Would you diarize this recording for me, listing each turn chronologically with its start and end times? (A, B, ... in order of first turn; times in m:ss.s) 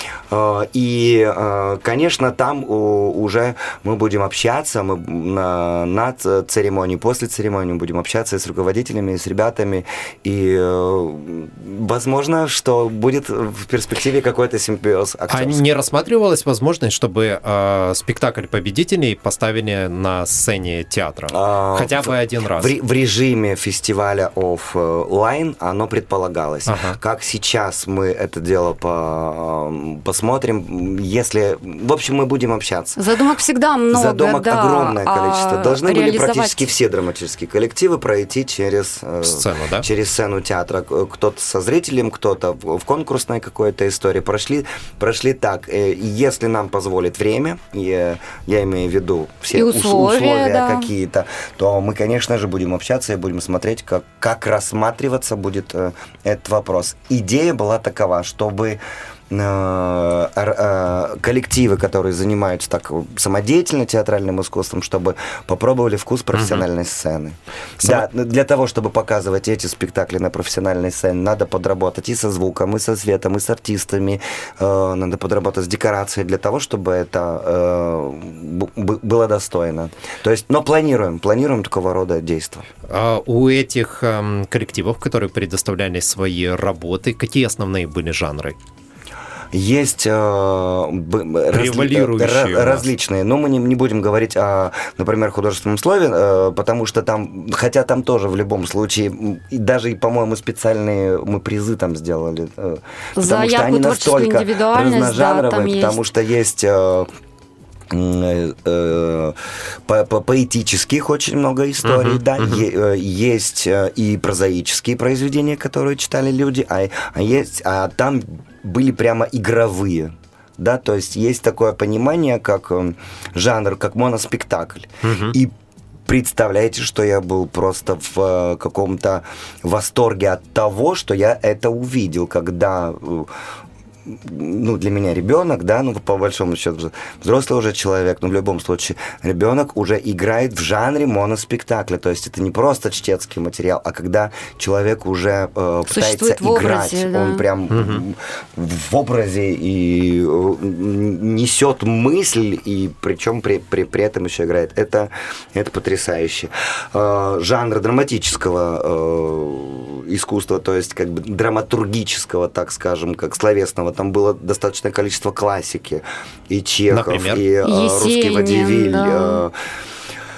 0:00.3-0:15.6 A
0:15.3-0:22.7 B
0:21.3-0:33.0 A
0:26.7-0:27.0 B
0:33.0-0:36.7 C
0:33.9-1:22.7 A
0:39.2-0:39.9 B
0:49.5-0:50.9 C
1:06.3-1:06.6 B
1:07.8-1:08.0 B
1:22.9-1:28.6 B
1:29.5-1:47.1 A
1:31.5-1:32.8 B
1:43.2-1:46.0 C
1:47.9-2:05.5 A
1:51.8-1:52.6 B
2:05.0-2:05.4 B
2:06.1-2:13.3 A
2:14.0-2:49.5 A
2:25.9-2:27.4 C
2:27.7-2:28.0 B
2:46.9-2:47.4 B
2:47.6-2:49.4 C